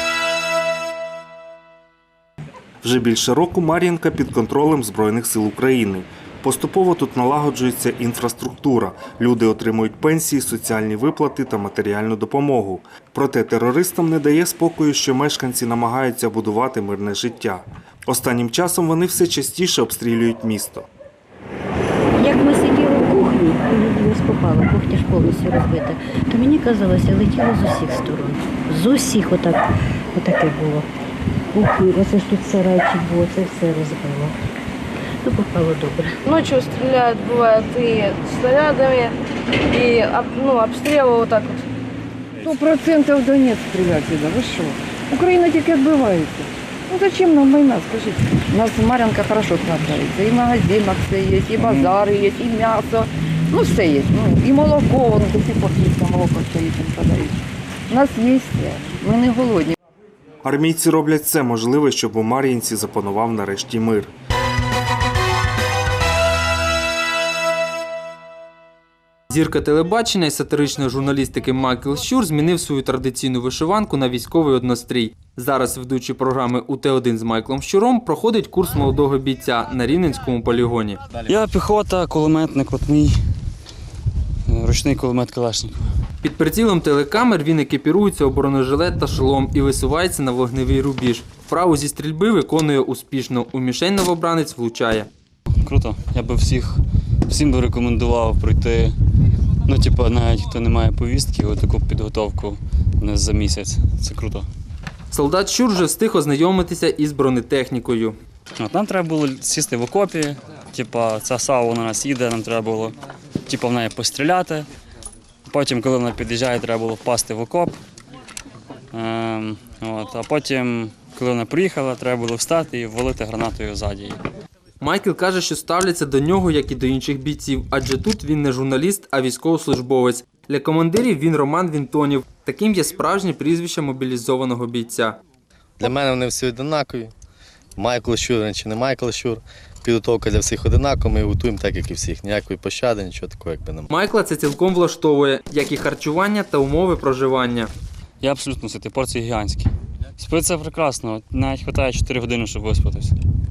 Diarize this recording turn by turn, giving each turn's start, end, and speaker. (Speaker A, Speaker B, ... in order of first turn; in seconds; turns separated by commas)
Speaker A: 2.8-20.9, Speaker B: 22.2-29.6, Speaker B: 30.2-30.8, Speaker B: 31.5-34.3, Speaker B: 35.2-36.1, Speaker C: 36.2-39.1, Speaker C: 39.7-41.6, Speaker D: 42.4-59.8, Speaker A: 60.4-64.1, Speaker E: 69.3-81.0, Speaker F: 81.2-83.2, Speaker F: 84.5-85.9, Speaker E: 86.2-95.1, Speaker F: 95.6-98.9, Speaker F: 99.7-104.5, Speaker E: 105.1-108.2, Speaker F: 108.6-112.9, Speaker F: 113.5-114.7, Speaker F: 115.5-117.7, Speaker F: 118.9-124.2, Speaker E: 124.8-135.2, Speaker G: 135.8-137.1, Speaker G: 137.8-143.9, Speaker E: 143.9-147.7, Speaker F: 148.2-153.1